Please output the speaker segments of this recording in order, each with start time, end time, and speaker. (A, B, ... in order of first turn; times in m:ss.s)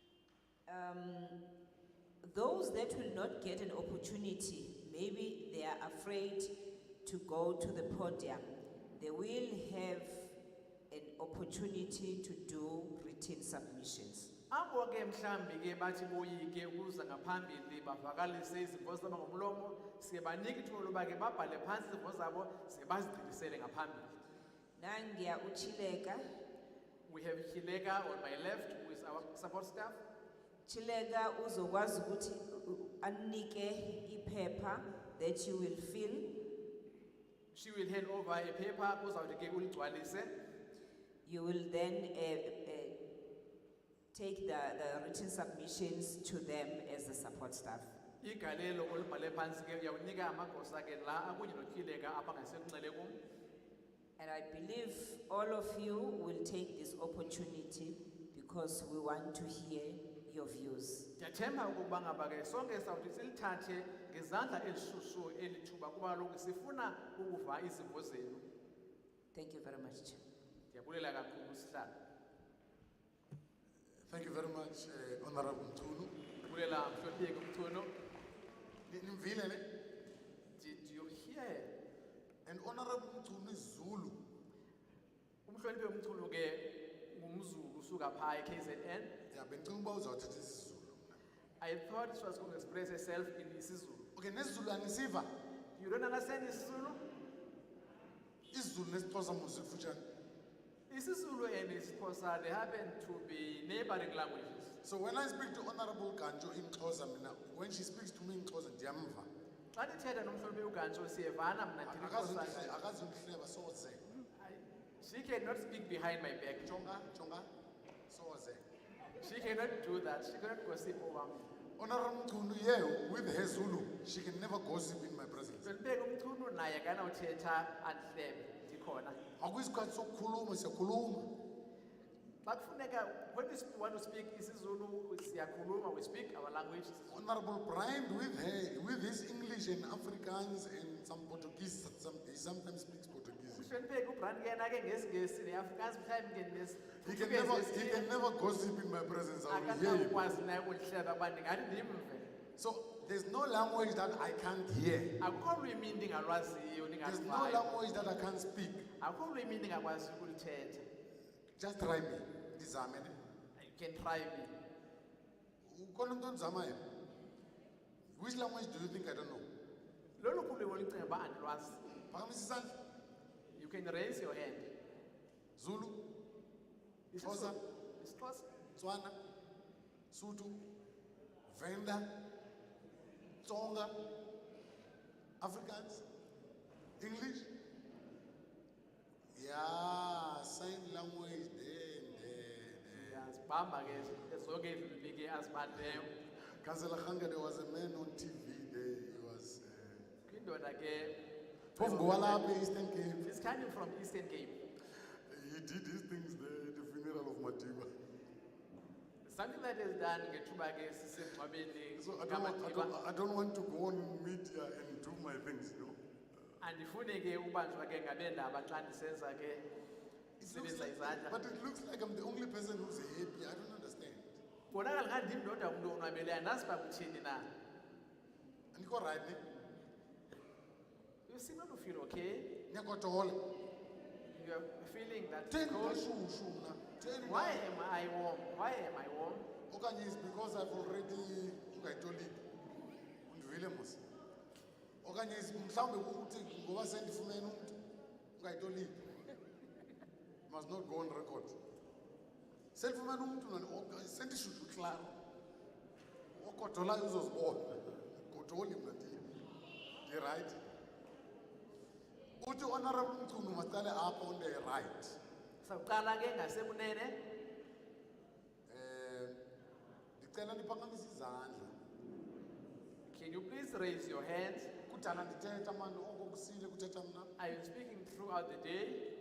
0:00.7-0:01.4 A
0:02.2-0:06.5 A
0:07.0-0:10.3 A
0:10.9-0:14.3 A
0:14.5-0:24.1 B
0:24.8-0:26.2 A
0:27.1-0:30.0 B
0:30.7-0:36.3 A
0:37.5-0:40.3 B
0:41.2-0:43.0 A
0:44.1-0:47.9 A
0:48.2-0:53.2 B
0:54.2-1:01.1 A
1:01.2-1:08.4 B
1:09.3-1:10.2 A
1:10.7-1:11.9 B
1:14.0-1:16.1 C
1:16.4-1:17.9 B
1:18.9-1:19.6 C
1:20.6-1:21.7 B
1:22.4-1:24.2 C
1:25.5-1:29.1 B
1:29.3-1:31.2 C
1:31.6-1:34.1 B
1:34.1-1:35.3 C
1:35.8-1:37.0 B
1:38.5-1:40.0 C
1:40.9-1:44.7 B
1:44.8-1:49.3 C
1:49.8-1:52.8 B
1:51.8-1:54.0 C
1:54.4-1:56.7 B
1:56.6-1:57.5 C
1:58.1-1:58.6 C
1:59.2-2:01.5 B
2:01.8-2:05.7 C
2:05.6-2:09.2 B
2:09.4-2:11.3 C
2:12.4-2:17.1 B
2:17.1-2:23.7 C
2:23.5-2:28.1 B
2:27.0-2:30.2 C
2:29.5-2:32.3 B
2:32.6-2:35.2 C
2:35.2-2:37.7 B
2:37.0-2:38.8 C
2:39.0-2:40.8 B
2:41.6-2:43.2 C
2:43.6-2:44.5 B
2:45.6-2:46.8 C
2:48.2-2:49.5 C
2:50.2-2:51.8 B
2:52.1-2:52.8 C
2:53.6-2:54.7 B
2:55.6-2:56.0 C
2:57.1-2:58.5 B
2:57.2-2:57.6 C
2:58.8-2:59.2 C
3:00.1-3:00.6 C
3:01.5-3:02.1 C
3:03.4-3:03.9 C
3:05.4-3:06.0 C
3:07.0-3:07.5 C
3:09.4-3:13.3 C
3:12.9-3:16.1 B
3:16.6-3:20.1 C
3:20.3-3:21.2 B
3:21.8-3:23.2 C
3:21.8-3:22.5 B
3:23.2-3:24.6 B
3:25.3-3:27.9 C
3:29.2-3:32.9 B
3:32.0-3:36.0 C
3:36.6-3:39.6 B
3:40.4-3:44.4 C
3:40.4-3:41.4 B
3:44.7-3:47.5 B
3:48.7-3:49.4 C
3:51.3-3:52.5 B
3:52.7-3:53.4 C
3:54.3-3:56.1 B
3:55.5-3:57.6 C
3:57.2-3:59.5 B
3:59.7-4:02.4 C
4:03.3-4:04.0 C
4:05.0-4:07.8 C
4:08.4-4:09.0 C
4:10.5-4:11.6 C
4:12.8-4:15.2 C
4:16.3-4:19.2 C
4:20.0-4:20.6 C
4:22.4-4:25.2 C
4:25.6-4:27.2 B
4:28.7-4:29.4 C
4:30.2-4:31.7 C
4:33.1-4:34.7 B
4:34.9-4:37.3 C
4:37.4-4:39.0 B